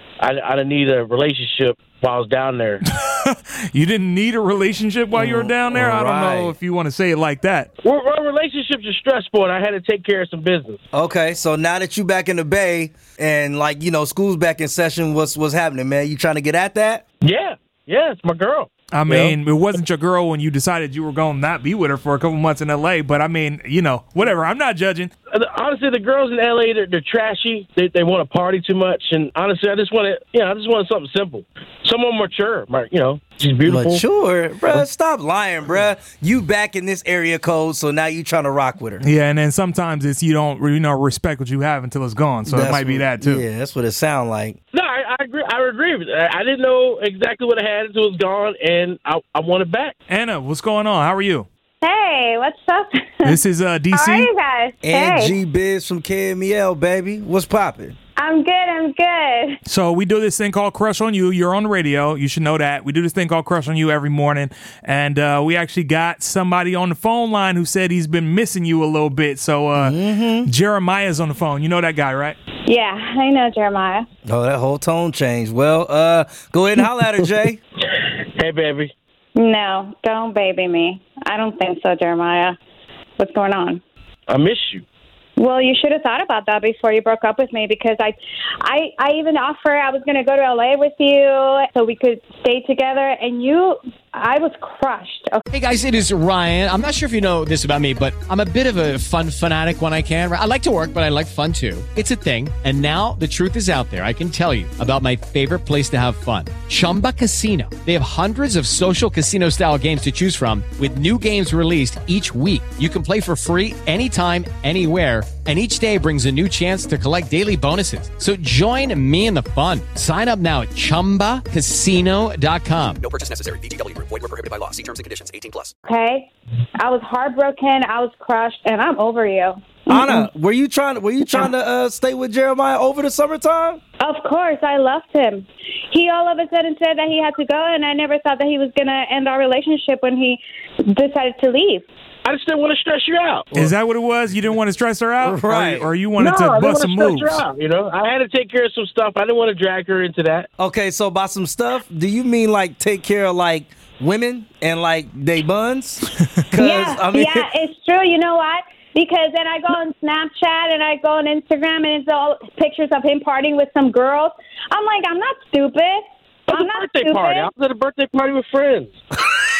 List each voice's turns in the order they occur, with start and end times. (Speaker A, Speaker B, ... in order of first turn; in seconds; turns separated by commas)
Speaker A: 0.2-2.8, Speaker B: 2.8-7.7, Speaker C: 5.1-6.5, Speaker A: 7.8-10.8, Speaker C: 10.9-17.0, Speaker A: 17.2-19.4, Speaker B: 18.9-25.1, Speaker A: 25.3-34.0, Speaker C: 33.6-39.0, Speaker B: 39.0-43.5, Speaker C: 42.5-44.5, Speaker A: 44.7-49.9, Speaker B: 50.1-51.5, Speaker D: 51.8-53.4, Speaker B: 53.2-54.3, Speaker D: 53.9-55.3, Speaker C: 54.8-57.9, Speaker D: 58.2-59.6, Speaker B: 59.6-69.9, Speaker C: 69.7-70.5, Speaker B: 70.4-72.3, Speaker D: 72.7-74.0, Speaker C: 74.2-77.6, Speaker A: 77.9-78.9, Speaker D: 79.3-82.5, Speaker D: 83.2-83.8, Speaker A: 84.3-84.8, Speaker D: 85.4-95.4, Speaker E: 95.5-123.0, Speaker F: 123.0-125.7, Speaker D: 125.8-130.2, Speaker C: 129.9-133.8, Speaker D: 134.0-141.8, Speaker A: 142.2-143.5, Speaker B: 143.5-147.4, Speaker C: 145.2-145.9, Speaker A: 146.2-150.5, Speaker C: 150.6-157.5, Speaker D: 156.6-167.5, Speaker A: 166.5-169.0